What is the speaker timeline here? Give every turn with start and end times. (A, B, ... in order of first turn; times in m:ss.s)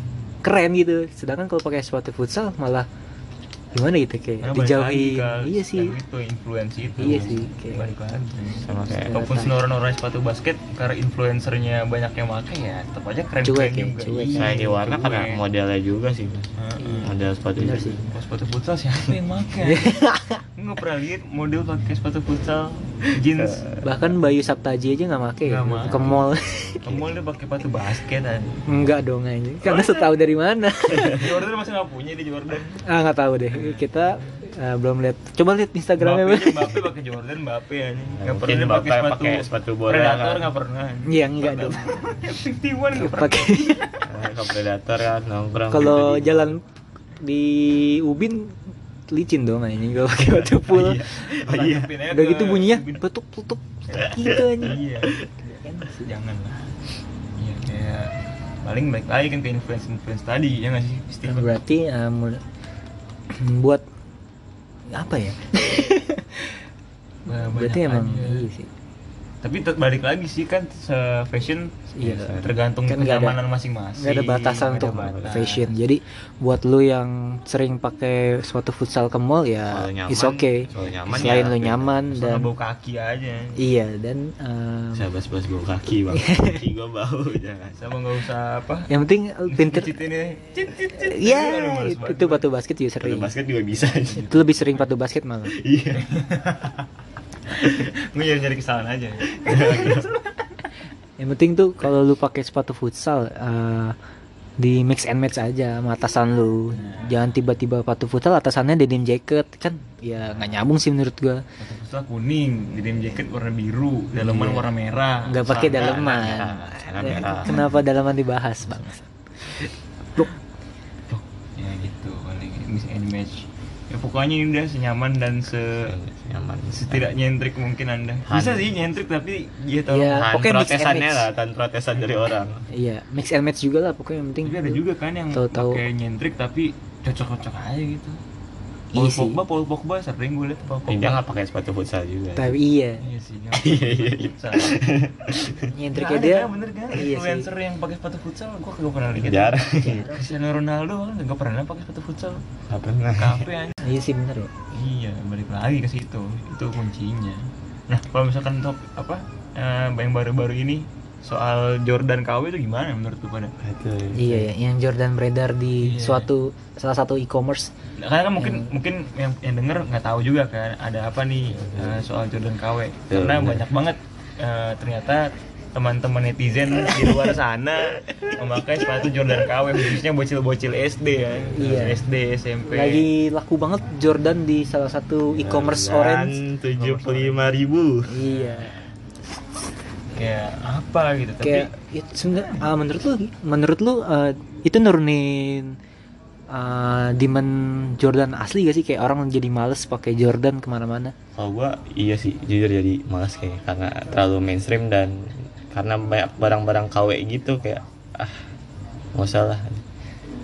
0:00.4-0:02.9 A
0:03.7-0:06.0 A
0:04.4-0:15.4 B
0:07.0-0:07.4 C
0:07.0-0:07.9 A
0:08.6-0:09.4 C
0:08.9-0:09.6 A
0:13.4-0:14.8 A
0:14.3-0:16.5 C
0:16.6-0:17.2 B
0:16.8-0:18.0 A
0:17.0-0:18.1 C
0:18.1-0:20.0 B
0:19.6-0:20.4 A
0:20.6-0:23.7 B
0:23.4-0:24.0 C
0:23.8-0:26.7 A
0:25.4-0:26.2 B
0:25.8-0:27.2 C
0:26.8-0:28.7 B
0:28.7-0:31.3 A
0:29.7-0:30.1 B
0:31.1-0:32.8 B
0:32.8-0:36.8 A
0:33.5-0:34.4 B
0:36.0-0:44.1 B
0:38.1-0:40.5 C
0:41.0-0:42.0 A
0:43.0-0:43.9 A
0:44.0-0:46.6 C
0:45.7-0:46.6 A
0:47.2-0:51.3 A
0:50.7-0:51.9 C
0:50.8-0:53.0 B
0:52.1-0:56.1 A
0:53.9-0:55.2 B
0:56.0-0:56.6 B
0:57.4-1:01.6 B
1:01.2-1:02.4 A
1:03.3-1:03.8 A
1:04.9-1:06.6 A
1:07.3-1:08.5 B
1:07.3-1:08.7 A
1:09.4-1:15.7 B
1:11.9-1:13.4 A
1:12.0-1:12.5 C
1:14.0-1:22.5 A
1:14.8-1:15.5 C
1:19.7-1:22.1 C
1:20.7-1:21.5 B
1:22.1-1:23.7 B
1:23.6-1:25.1 A
1:24.9-1:27.8 C
1:26.1-1:26.6 A
1:27.8-1:28.9 B
1:28.9-1:29.9 A
1:29.5-1:32.4 B
1:31.0-1:33.3 A
1:33.0-1:34.3 C
1:34.0-1:34.8 B
1:34.2-1:35.6 A
1:35.5-1:36.1 C
1:35.9-1:36.8 B
1:37.5-1:40.4 B
1:39.3-1:40.1 C
1:41.2-1:44.0 A
1:44.6-1:51.4 A
1:46.7-1:47.2 B
1:50.3-1:50.5 B
1:51.6-1:57.4 B
1:54.2-1:54.7 A
1:55.2-1:59.6 A
1:55.6-1:57.8 C
2:01.6-2:05.9 B
2:05.8-2:07.2 C
2:06.7-2:10.2 B
2:08.3-2:08.8 C
2:09.9-2:11.3 A
2:10.1-2:12.7 C
2:12.7-2:14.8 A
2:14.4-2:18.2 B
2:15.3-2:15.8 A
2:18.9-2:19.4 A
2:18.9-2:21.2 B
2:20.9-2:22.6 C
2:22.4-2:23.0 A
2:23.0-2:24.8 B
2:23.5-2:25.7 C
2:25.6-2:27.5 A
2:25.9-2:32.4 B
2:29.2-2:30.0 C
2:29.8-2:30.4 A
2:32.7-2:33.5 C
2:33.2-2:33.8 B
2:33.8-2:34.5 A
2:34.7-2:43.6 B
2:43.6-2:44.5 C
2:44.1-2:47.7 A
2:45.8-2:46.3 B
2:48.0-3:03.1 B
2:48.4-2:48.7 A
2:51.5-2:52.1 C
2:53.1-2:53.6 C
3:01.5-3:02.1 A
3:02.7-3:06.4 A
3:05.3-3:08.2 C
3:06.8-3:07.5 B
3:08.1-3:08.8 A
3:08.2-3:08.7 B
3:10.1-3:11.7 B
3:11.4-3:15.8 A
3:16.5-3:21.1 A
3:21.4-3:28.5 C
3:29.1-3:29.8 C